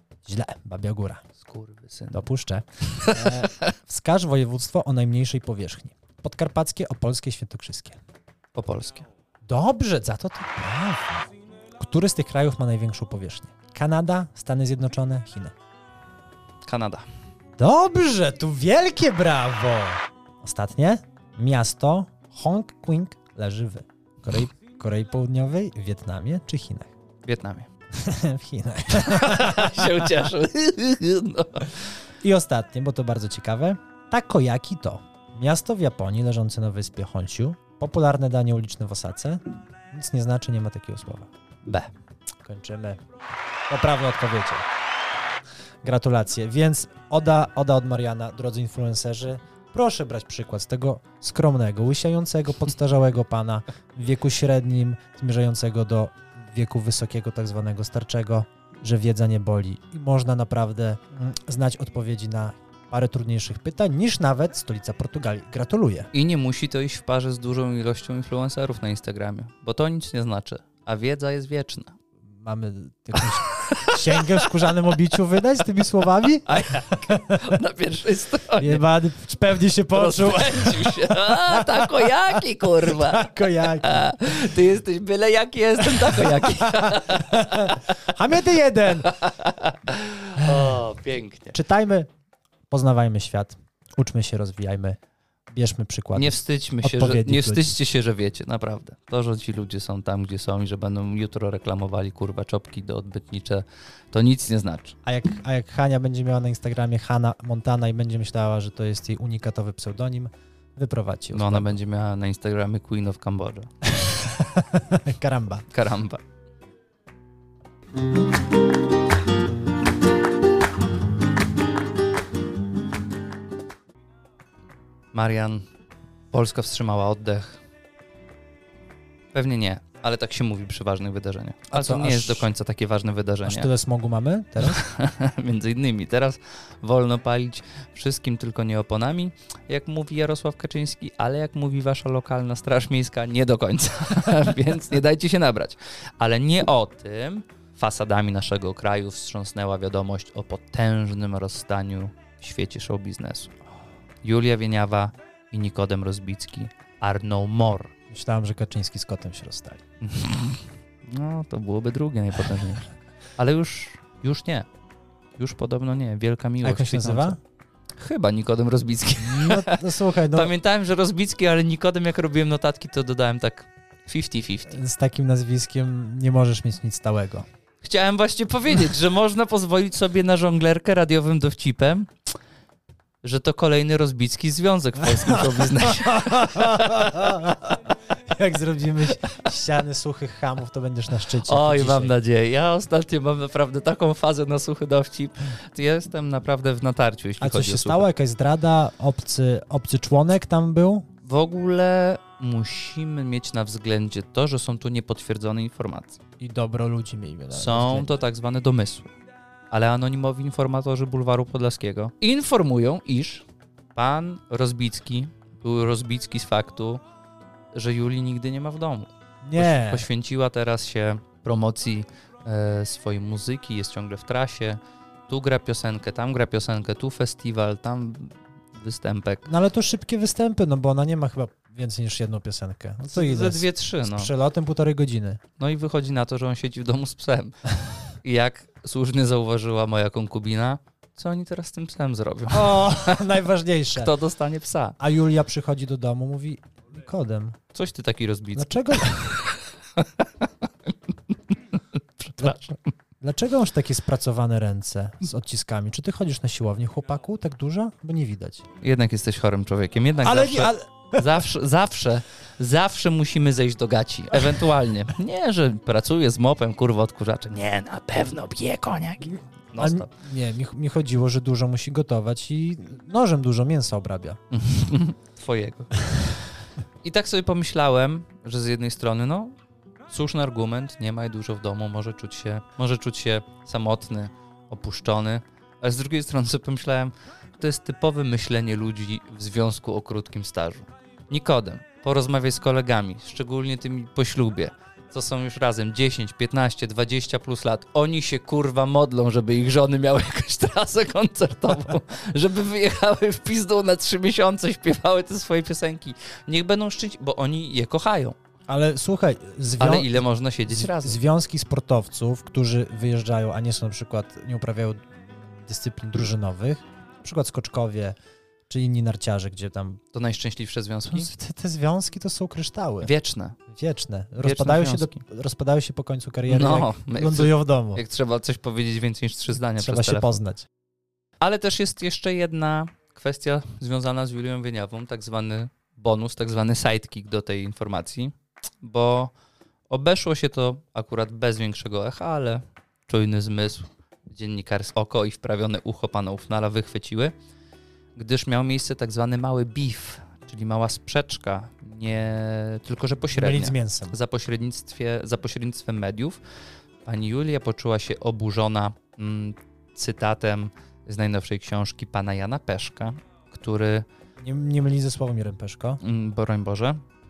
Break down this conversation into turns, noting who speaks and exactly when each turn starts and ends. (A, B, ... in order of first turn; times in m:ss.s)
0:00.2-0:01.2 A
0:01.4-0:02.2 B
0:02.1-0:08.0 A
0:02.9-0:03.6 B
0:08.5-0:09.0 B
0:09.4-0:15.5 A
0:16.6-0:17.0 B
0:17.6-0:26.9 A
0:27.2-0:27.7 B
0:27.9-0:29.9 A
0:29.0-0:31.8 B
0:32.2-0:41.3 A
0:42.4-0:43.0 A
0:43.7-0:44.7 A
0:45.8-1:06.1 A
1:06.1-1:11.9 B
1:12.3-1:17.4 A
1:13.4-1:14.5 B
1:16.5-1:18.8 B
1:18.6-1:22.1 A
1:19.9-1:27.7 B
1:22.8-1:24.6 A
1:25.8-1:29.1 A
1:29.0-1:31.6 B
1:30.4-1:30.8 A
1:31.5-1:32.1 A
1:32.7-1:35.0 A
1:35.5-1:37.8 A
1:36.2-1:45.0 B
1:45.0-1:51.8 A
1:51.3-1:53.7 B
1:54.1-1:55.7 A
1:55.7-1:56.2 B
2:05.1-2:05.6 B
2:06.3-2:07.6 B
2:09.3-2:13.7 B
2:11.7-2:12.5 A
2:13.4-2:14.8 A
2:14.6-2:33.5 B
2:34.2-2:37.9 B
2:38.1-2:39.8 A
2:40.0-2:44.7 B
2:45.4-2:47.4 B
2:46.6-2:47.4 A
2:48.0-2:54.8 B
2:49.2-2:50.5 A
2:54.7-2:57.4 A
2:57.8-3:02.1 B
3:03.2-3:07.1 B
3:05.2-3:07.8 A
3:08.3-3:12.1 A
3:11.4-3:18.0 B
3:17.4-3:21.0 A
3:21.2-3:26.2 B
3:26.4-3:28.1 A
3:27.5-3:29.1 B
3:29.7-3:37.0 B
3:37.7-3:49.5 B
3:39.4-3:40.1 A
3:49.4-3:55.4 A
3:53.1-3:54.3 B
3:55.6-3:57.6 B
3:58.2-4:03.2 B
4:02.5-4:04.1 A
4:03.9-4:05.0 B
4:05.0-4:07.6 A
4:07.7-4:10.3 B
4:08.6-4:09.4 A
4:11.5-4:12.9 B
4:12.4-4:18.6 A
4:18.8-4:30.1 B
4:20.2-4:21.4 A
4:29.8-4:34.4 A
4:34.5-4:36.1 B
4:37.0-4:39.5 B
4:40.1-5:08.4 B
5:08.7-5:18.2 A
5:09.8-5:11.2 B
5:18.7-5:20.0 A
5:20.1-5:21.3 B
5:21.1-5:23.1 A
5:23.0-5:23.6 B
5:23.7-5:28.0 A
5:24.4-5:25.2 B
5:26.5-5:30.4 B
5:29.8-5:30.6 A
5:31.4-5:39.3 B
5:39.9-5:47.3 B
5:48.2-5:56.4 B
5:53.3-5:54.2 A
5:57.0-6:04.1 B
6:04.4-6:06.0 A
6:06.0-6:07.0 B